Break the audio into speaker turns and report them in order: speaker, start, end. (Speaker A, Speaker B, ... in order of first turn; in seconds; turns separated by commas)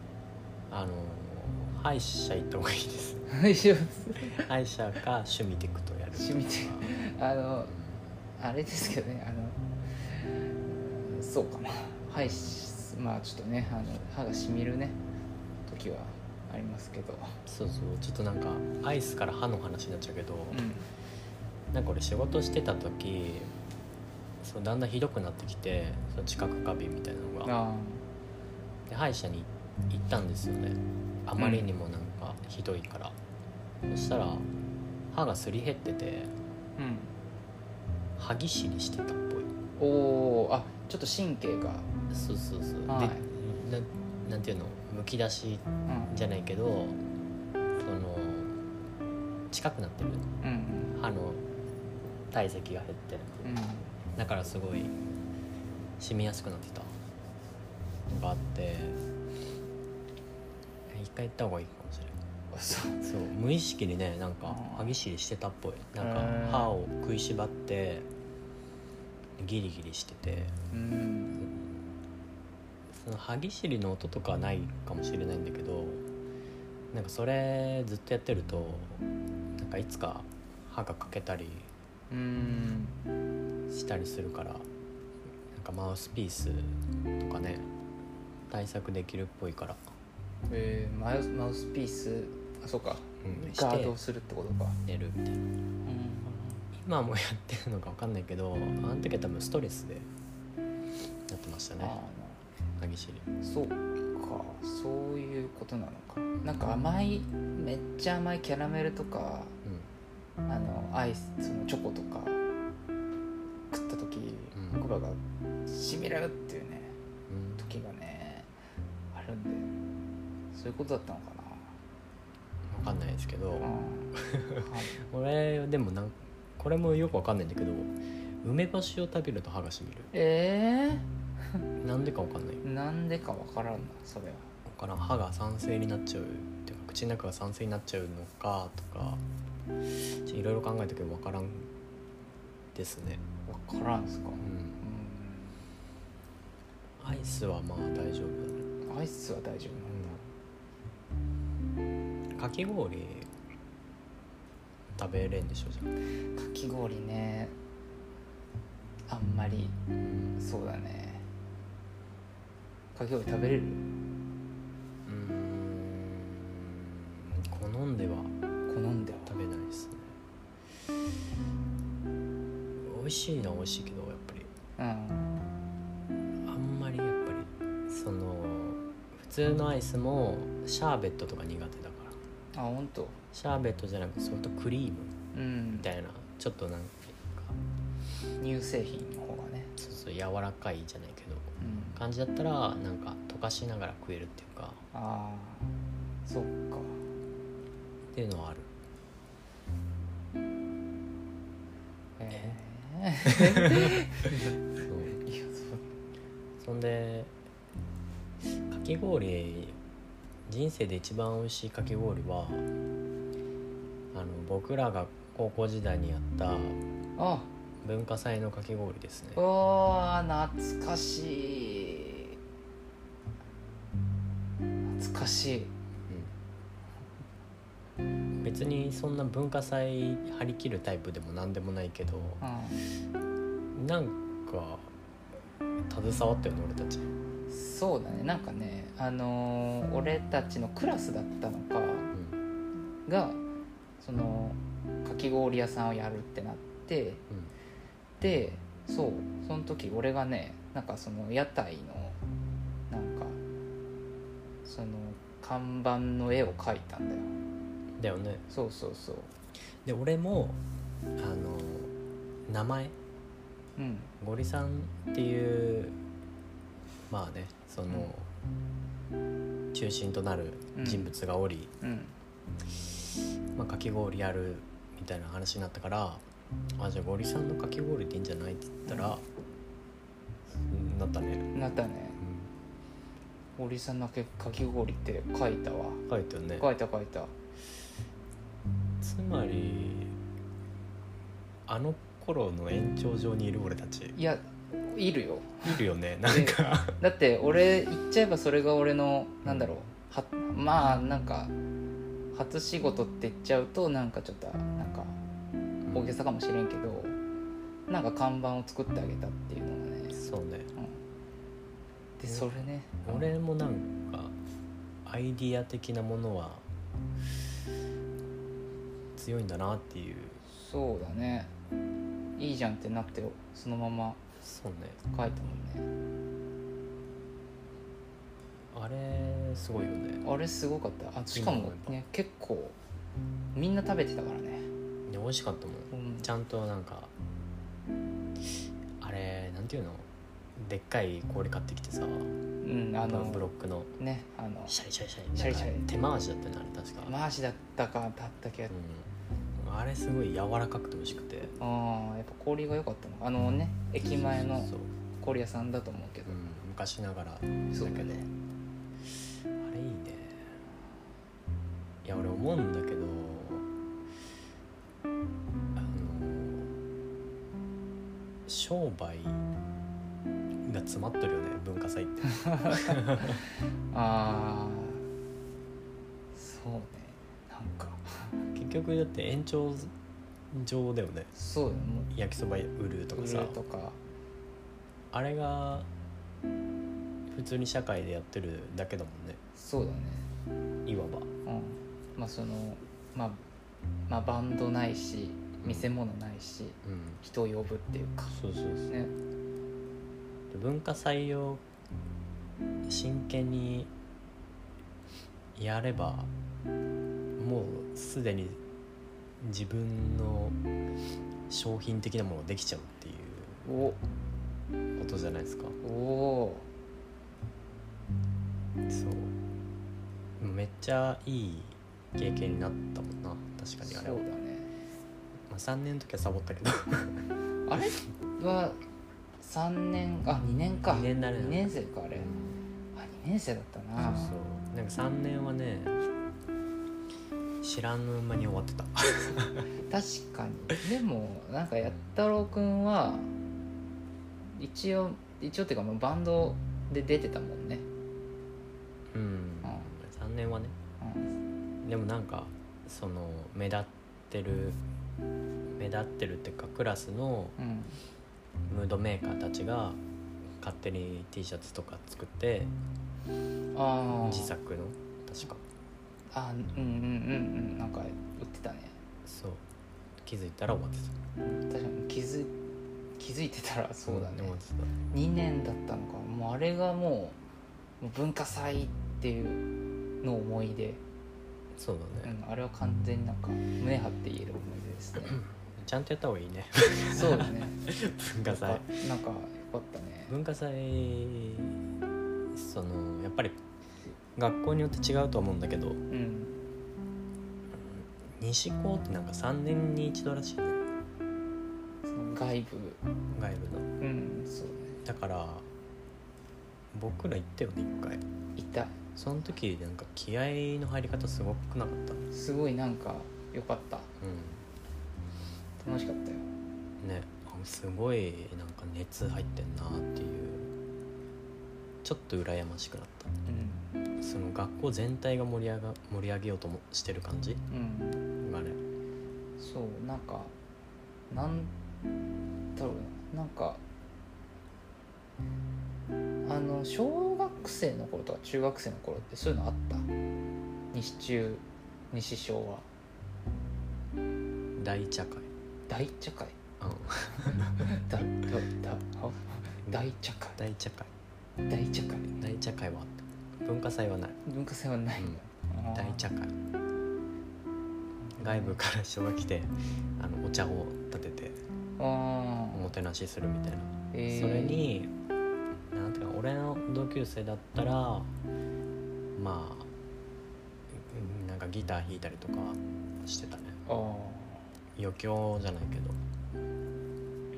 Speaker A: 0.7-3.3, Speaker B: 3.3-4.4, Speaker A: 4.2-6.9, Speaker B: 6.1-7.7, Speaker A: 7.7-8.0, Speaker B: 8.4-15.0, Speaker B: 15.7-17.3, Speaker A: 17.4-20.7, Speaker B: 20.5-20.9, Speaker A: 21.7-23.5, Speaker A: 24.4-27.5, Speaker B: 27.4-28.0, Speaker A: 28.9-33.1, Speaker B: 31.4-31.7, Speaker A: 33.9-34.5, Speaker A: 35.1-36.3, Speaker B: 36.8-37.1, Speaker A: 38.2-39.5, Speaker B: 39.8-41.9, Speaker A: 42.1-47.0, Speaker B: 42.9-43.2, Speaker B: 45.9-46.1, Speaker A: 47.8-48.6, Speaker A: 49.5-50.2, Speaker B: 50.4-51.0, Speaker A: 51.0-51.4, Speaker A: 52.3-53.5, Speaker B: 53.4-53.9, Speaker A: 54.1-54.9, Speaker A: 56.0-56.9, Speaker A: 58.1-59.0, Speaker A: 60.9-62.1, Speaker B: 62.5-63.0, Speaker A: 63.0-68.1, Speaker B: 64.4-65.0, Speaker B: 66.0-66.8, Speaker A: 69.4-70.5, Speaker B: 70.7-71.4, Speaker A: 71.4-71.7, Speaker A: 72.9-76.0, Speaker A: 76.9-79.0, Speaker A: 79.6-81.7, Speaker B: 82.1-83.0, Speaker A: 83.7-84.7, Speaker A: 85.5-87.6, Speaker A: 88.5-89.8, Speaker B: 90.5-94.8, Speaker A: 93.2-94.0, Speaker A: 94.8-95.4, Speaker B: 95.8-96.7, Speaker A: 96.7-100.1, Speaker A: 101.3-102.0, Speaker B: 101.8-102.4, Speaker A: 102.8-103.2, Speaker B: 103.4-109.5, Speaker A: 109.6-109.9, Speaker B: 110.5-112.4, Speaker B: 113.7-116.9, Speaker A: 114.5-114.8, Speaker A: 117.3-117.8, Speaker B: 117.6-118.5, Speaker B: 119.1-119.7, Speaker B: 120.5-121.7, Speaker A: 122.7-130.1, Speaker B: 123.6-124.9, Speaker B: 130.1-131.1, Speaker A: 131.8-132.6, Speaker B: 132.6-134.5, Speaker A: 134.7-139.2, Speaker A: 140.0-141.7, Speaker A: 142.7-143.2, Speaker B: 143.5-145.6, Speaker A: 144.4-144.8, Speaker A: 147.0-148.6, Speaker B: 148.8-150.2, Speaker A: 149.9-150.2, Speaker A: 152.3-153.3, Speaker A: 154.9-155.9, Speaker B: 156.3-157.6, Speaker B: 159.1-159.8, Speaker A: 160.0-160.3, Speaker B: 160.3-161.2, Speaker B: 162.9-163.8, Speaker A: 165.1-168.3, Speaker B: 168.7-169.4, Speaker A: 169.2-170.1, Speaker A: 172.8-174.5, Speaker B: 174.8-175.4, Speaker A: 176.4-182.2, Speaker B: 182.5-183.2, Speaker A: 183.3-185.1, Speaker B: 185.3-185.9, Speaker A: 185.7-187.6, Speaker B: 188.4-189.7, Speaker A: 189.8-194.8, Speaker B: 191.6-192.0, Speaker B: 194.9-195.7, Speaker B: 196.2-197.0, Speaker A: 198.1-198.7, Speaker B: 202.2-204.6, Speaker A: 204.8-205.2, Speaker B: 205.2-205.8, Speaker A: 206.6-207.3, Speaker A: 208.4-209.8, Speaker A: 210.5-212.6, Speaker A: 214.1-216.8, Speaker B: 217.2-217.5, Speaker A: 217.8-219.4, Speaker B: 219.3-222.3, Speaker B: 224.9-225.7, Speaker A: 228.4-232.4, Speaker B: 232.4-232.8, Speaker A: 233.7-234.9, Speaker A: 235.9-237.1, Speaker B: 237.5-242.1, Speaker A: 242.1-242.4, Speaker B: 243.1-243.4, Speaker B: 244.0-247.2, Speaker B: 248.2-252.2, Speaker B: 252.9-253.4, Speaker B: 254.6-257.3, Speaker A: 258.0-258.4, Speaker B: 258.5-259.3, Speaker A: 259.8-260.6, Speaker A: 261.2-261.9, Speaker A: 262.5-262.9, Speaker B: 263.8-264.1, Speaker A: 264.2-265.9, Speaker A: 267.1-268.3, Speaker A: 269.7-271.7, Speaker B: 270.7-271.1, Speaker B: 271.8-272.1, Speaker A: 273.6-276.2, Speaker A: 276.8-279.2, Speaker B: 278.9-279.1, Speaker A: 280.5-281.5, Speaker B: 281.5-282.2, Speaker A: 282.2-282.5, Speaker B: 283.6-286.0, Speaker A: 286.1-286.7, Speaker B: 286.5-287.3, Speaker A: 289.0-290.1, Speaker A: 291.7-294.1, Speaker B: 294.1-301.5, Speaker A: 295.6-297.0, Speaker A: 299.4-299.8, Speaker B: 302.3-305.2, Speaker A: 305.9-306.2, Speaker B: 305.9-307.1, Speaker B: 307.9-310.2, Speaker A: 310.1-310.7, Speaker B: 312.2-313.3, Speaker A: 313.0-314.3, Speaker A: 315.0-316.6, Speaker A: 319.1-320.4, Speaker B: 320.4-321.5, Speaker B: 322.4-324.2, Speaker A: 324.4-325.0, Speaker B: 325.1-325.9, Speaker A: 328.7-330.2, Speaker B: 330.2-332.8, Speaker A: 331.3-332.0, Speaker B: 333.5-334.7, Speaker A: 335.1-337.1, Speaker B: 335.9-336.3, Speaker A: 339.0-342.3, Speaker B: 342.6-344.8, Speaker A: 343.0-343.9, Speaker A: 344.7-347.1, Speaker B: 345.3-345.9, Speaker B: 347.0-348.7, Speaker A: 348.7-351.6, Speaker B: 351.6-356.4, Speaker A: 354.0-354.9, Speaker A: 356.2-358.2, Speaker B: 357.7-358.3, Speaker A: 359.6-360.4, Speaker A: 362.0-363.6, Speaker A: 365.7-366.7, Speaker A: 368.5-369.4, Speaker A: 370.6-373.4, Speaker B: 372.4-373.4, Speaker B: 373.9-375.0, Speaker B: 376.3-378.4, Speaker A: 378.5-379.9, Speaker A: 380.5-381.3, Speaker B: 381.3-382.1, Speaker A: 382.1-383.6, Speaker B: 383.1-384.0, Speaker A: 385.1-385.9, Speaker A: 387.3-389.4, Speaker B: 389.5-390.3, Speaker A: 390.9-391.3, Speaker B: 391.4-393.4, Speaker B: 394.1-398.4, Speaker A: 395.6-395.9, Speaker A: 396.8-397.2, Speaker A: 398.3-398.9, Speaker A: 400.5-401.6, Speaker A: 402.9-403.9, Speaker A: 405.5-406.3, Speaker A: 407.4-408.6, Speaker A: 409.4-410.6, Speaker A: 411.5-413.7, Speaker B: 413.6-414.0, Speaker A: 414.9-415.8, Speaker B: 415.8-416.7, Speaker A: 418.9-419.3, Speaker A: 420.4-424.2, Speaker B: 423.8-424.7, Speaker A: 425.5-427.2, Speaker B: 427.6-428.8, Speaker B: 429.4-432.3, Speaker A: 430.9-432.6, Speaker B: 432.9-434.3, Speaker A: 434.0-436.1, Speaker A: 437.6-439.7, Speaker B: 439.8-443.3, Speaker B: 444.5-447.8, Speaker A: 449.1-450.8, Speaker B: 449.6-449.9, Speaker B: 451.0-451.3, Speaker A: 451.8-454.8, Speaker A: 455.8-457.6, Speaker B: 457.6-458.0, Speaker A: 458.7-460.0, Speaker A: 460.6-462.7, Speaker B: 463.7-464.5, Speaker A: 464.1-465.6, Speaker B: 466.3-468.9, Speaker A: 469.2-469.6, Speaker A: 470.2-471.1, Speaker B: 471.4-472.5, Speaker B: 473.2-474.6, Speaker A: 474.1-474.9, Speaker B: 475.1-477.4, Speaker B: 478.0-479.6, Speaker B: 480.2-481.0, Speaker A: 481.7-482.3, Speaker B: 482.2-485.4, Speaker A: 485.6-488.9, Speaker B: 487.1-487.8, Speaker B: 488.4-490.3, Speaker A: 490.3-491.8, Speaker A: 492.5-493.6, Speaker A: 494.4-496.0, Speaker B: 496.1-496.6, Speaker A: 497.7-500.8, Speaker B: 502.0-503.0, Speaker A: 503.3-503.9, Speaker B: 504.0-505.0, Speaker A: 505.0-505.6, Speaker A: 506.9-508.2, Speaker B: 508.6-509.0, Speaker A: 509.1-512.2, Speaker B: 512.3-514.1, Speaker A: 514.2-514.6, Speaker B: 515.8-516.5, Speaker A: 517.0-520.7, Speaker A: 522.0-523.3, Speaker B: 523.5-523.9, Speaker A: 524.2-527.6, Speaker B: 527.7-528.2, Speaker A: 528.4-528.8, Speaker B: 529.6-530.5, Speaker B: 531.3-531.7, Speaker B: 532.8-533.8, Speaker B: 536.4-540.1, Speaker B: 540.9-542.8, Speaker A: 544.8-545.5, Speaker B: 545.9-546.6, Speaker A: 546.8-547.9, Speaker B: 547.4-550.6, Speaker A: 550.6-551.1, Speaker B: 551.6-552.5, Speaker A: 552.4-554.4, Speaker B: 554.5-556.3, Speaker A: 555.9-556.5, Speaker B: 558.3-558.8, Speaker A: 558.4-561.6, Speaker B: 562.0-562.9, Speaker A: 562.7-565.1, Speaker B: 564.1-564.9, Speaker A: 565.9-568.3, Speaker A: 569.4-569.9, Speaker A: 570.9-573.8, Speaker B: 573.9-574.7, Speaker A: 575.0-576.2